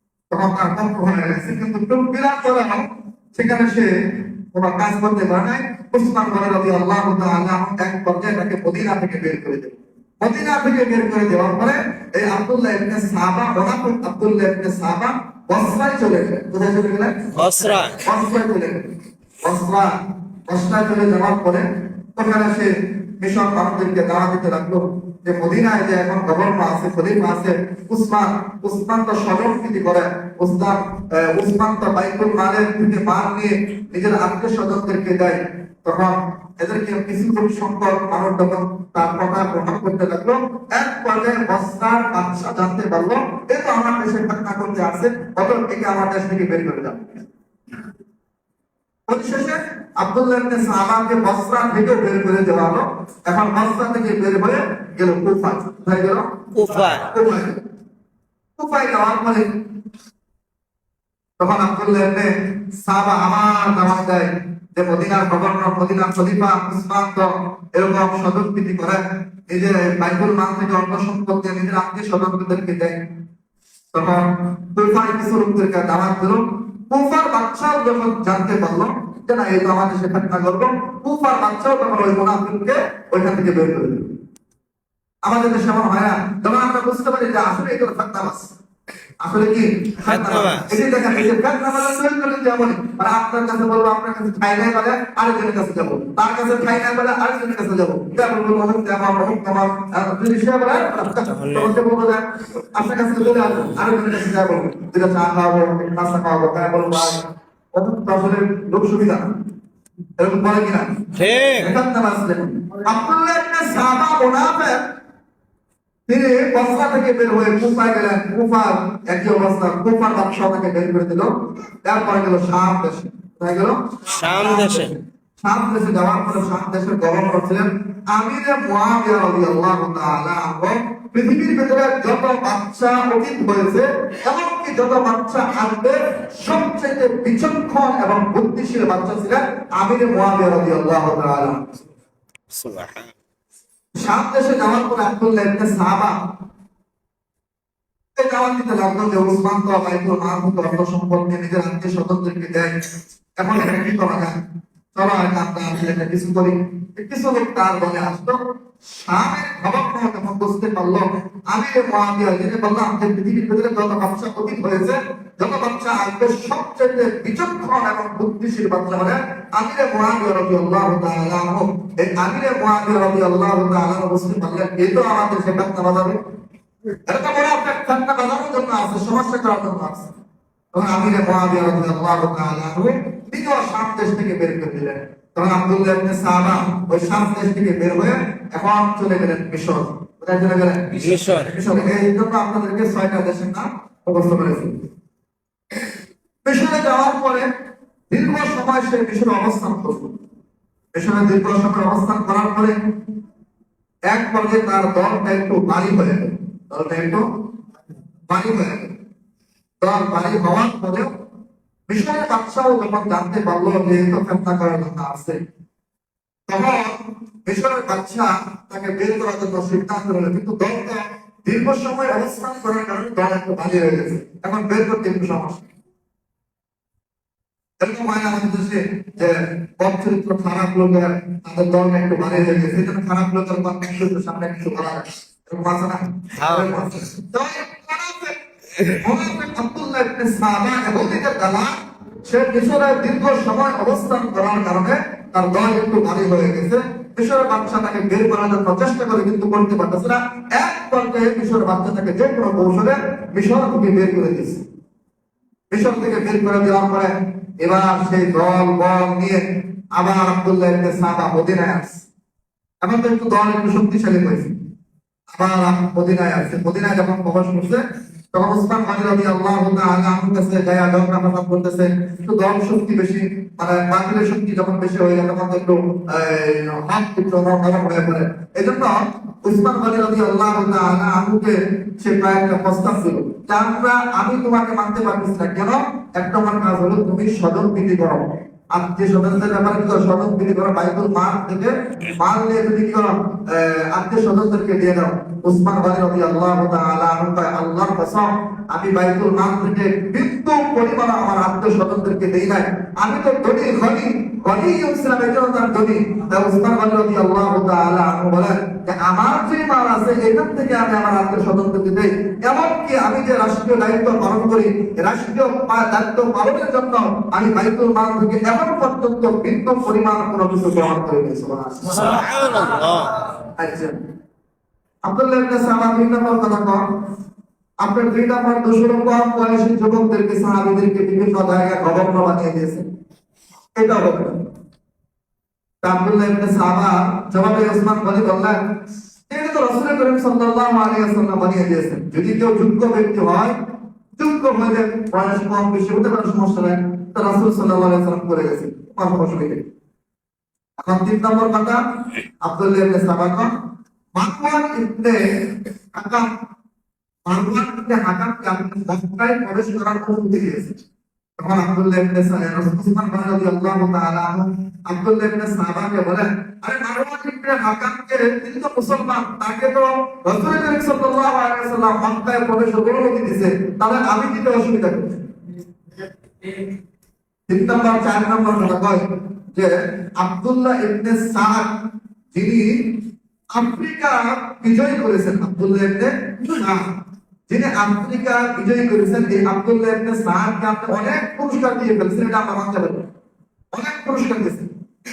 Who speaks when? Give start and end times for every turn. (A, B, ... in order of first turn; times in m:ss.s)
0:00.3-0:17.3 A
0:17.3-0:18.0 B
0:17.9-0:18.9 A
0:19.4-0:19.9 A
0:20.4-0:47.0 A
0:49.1-0:56.3 A
0:56.5-0:57.1 B
0:56.9-0:57.6 A
0:58.6-0:59.5 A
1:01.4-1:13.0 A
1:13.9-1:24.1 A
1:25.2-1:28.5 A
1:29.2-1:49.3 A
1:30.0-1:30.7 B
1:41.2-1:41.7 B
1:50.2-1:54.8 A
1:51.2-1:51.7 B
1:56.1-2:01.3 A
2:01.8-2:21.6 A
2:04.1-2:04.9 B
2:22.5-2:23.1 B
2:24.0-2:26.2 A
2:28.2-2:32.8 A
2:33.4-2:34.3 A
2:34.9-2:56.2 A
2:57.1-3:00.1 A
3:00.7-3:14.7 A
3:11.0-3:11.5 B
3:16.4-3:17.5 A
3:18.1-3:20.1 A
3:20.9-3:22.8 A
3:24.1-3:27.2 A
3:28.3-3:28.9 A
3:29.8-3:31.1 A
3:31.9-3:35.4 A
3:36.5-3:45.6 A
3:47.8-3:58.4 A
3:56.4-3:56.8 B
3:58.8-3:59.0 B
3:58.9-4:14.6 A
4:15.7-4:22.0 A
4:22.8-4:24.5 A
4:25.3-4:27.8 A
4:28.3-5:22.2 A
5:21.9-5:23.2 B
5:23.4-5:24.0 A
5:25.1-5:26.8 A
5:27.8-5:32.8 A
5:33.7-5:34.4 A
5:35.8-5:38.6 A
5:39.3-5:43.5 A
5:44.2-5:49.6 A
5:50.8-5:51.8 A
5:52.4-5:53.5 A
5:54.2-5:56.3 A
5:57.3-6:00.8 A
6:01.4-6:15.2 A
6:17.5-6:21.7 A
6:22.3-6:22.7 A
6:23.6-6:26.9 A
6:27.5-6:33.1 A
6:33.7-6:34.7 A